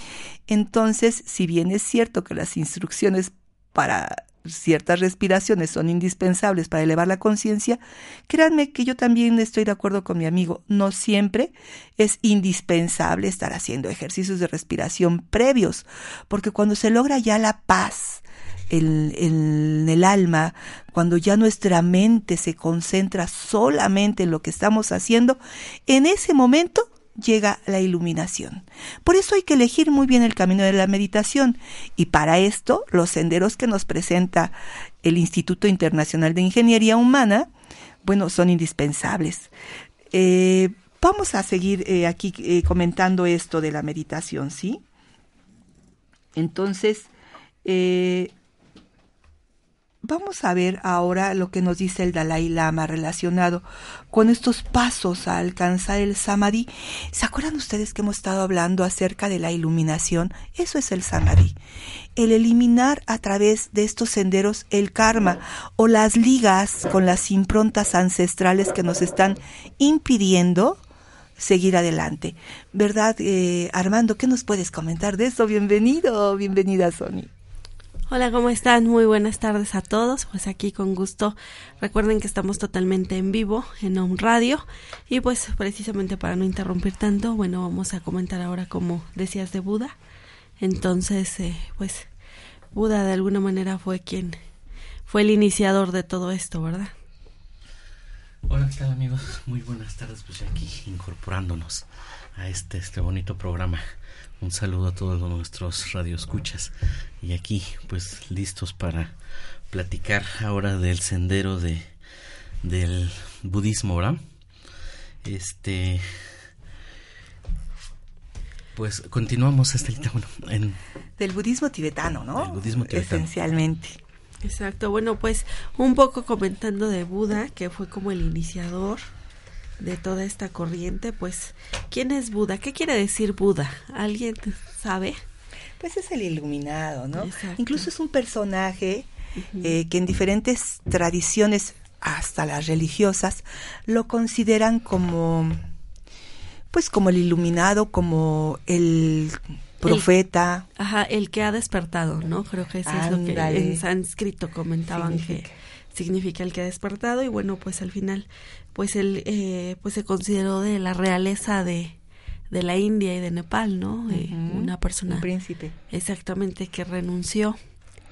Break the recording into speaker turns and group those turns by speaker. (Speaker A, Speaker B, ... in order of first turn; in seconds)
Speaker A: 0.5-37.5, 38.0-39.5, 40.1-44.8, 46.4-47.1, 47.6-48.3, 50.0-61.6, 62.2-70.8, 71.4-77.3, 121.2-124.0, 135.8-139.1, 139.6-145.6, 146.7-150.7, 152.8-153.8, 154.9-155.6, 164.1-165.8
Speaker B: 78.1-90.0, 90.6-92.1, 92.7-94.4, 95.1-96.9, 124.4-129.1, 129.8-135.2, 137.2-137.8, 139.4-139.8, 150.8-162.0, 162.5-165.3, 165.9-167.6
Speaker C: 98.5-103.8, 104.4-109.1, 109.7-111.9, 112.6-114.2, 115.2-116.3, 118.8-120.8, 122.3-123.3